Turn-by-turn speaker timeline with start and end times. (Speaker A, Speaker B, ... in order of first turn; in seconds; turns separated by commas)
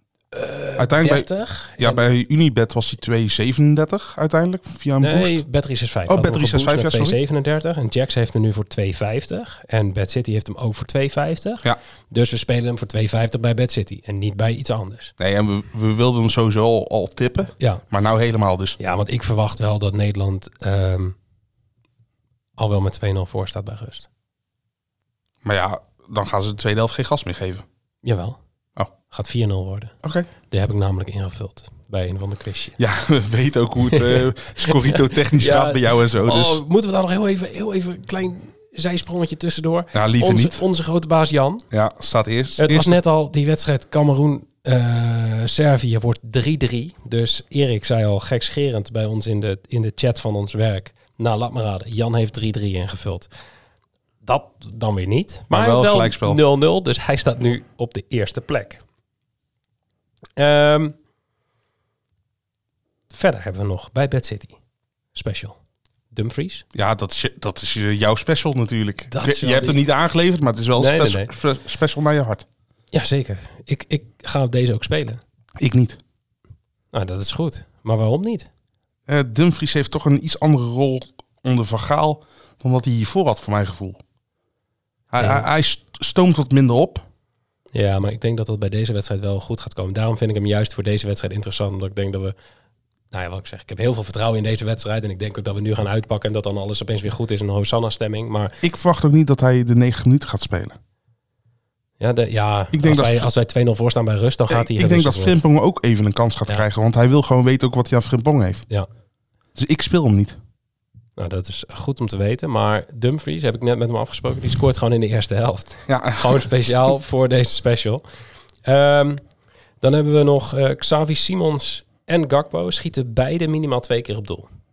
Speaker A: 0.3-2.1, Speaker B: 0.8-5.4, Speaker A: 5.0-15.1, Speaker B: 6.1-7.2, Speaker B: 15.2-18.8, Speaker A: 18.8-21.1, Speaker A: 22.6-24.1, Speaker B: 25.4-27.6, Speaker A: 28.0-28.4, Speaker A: 29.1-29.9, Speaker B: 30.0-30.3, Speaker A: 30.5-32.8, Speaker B: 32.8-36.6, Speaker A: 33.9-41.6, Speaker B: 39.9-40.6, Speaker B: 41.7-43.0, Speaker A: 42.6-53.3, Speaker A: 54.2-58.8, Speaker B: 55.5-56.4, Speaker A: 60.4-60.9, Speaker A: 63.1-64.6, Speaker A: 65.1-65.6, Speaker A: 66.1-66.6, Speaker B: 66.7-72.4, Speaker A: 69.1-69.8, Speaker A: 70.8-71.3, Speaker A: 72.9-75.2, Speaker B: 75.6-76.0, Speaker A: 76.9-78.5, Speaker B: 79.1-84.0, Speaker B: 85.1-87.0, Speaker A: 85.2-85.5, Speaker A: 87.7-92.3, Speaker A: 93.1-98.6, Speaker B: 98.6-100.8, Speaker A: 102.0-105.4, Speaker B: 102.7-103.3, Speaker B: 104.5-108.6, Speaker B: 109.5-110.4, Speaker A: 111.2-118.0, Speaker B: 115.9-116.5, Speaker A: 118.6-119.2, Speaker A: 119.8-124.5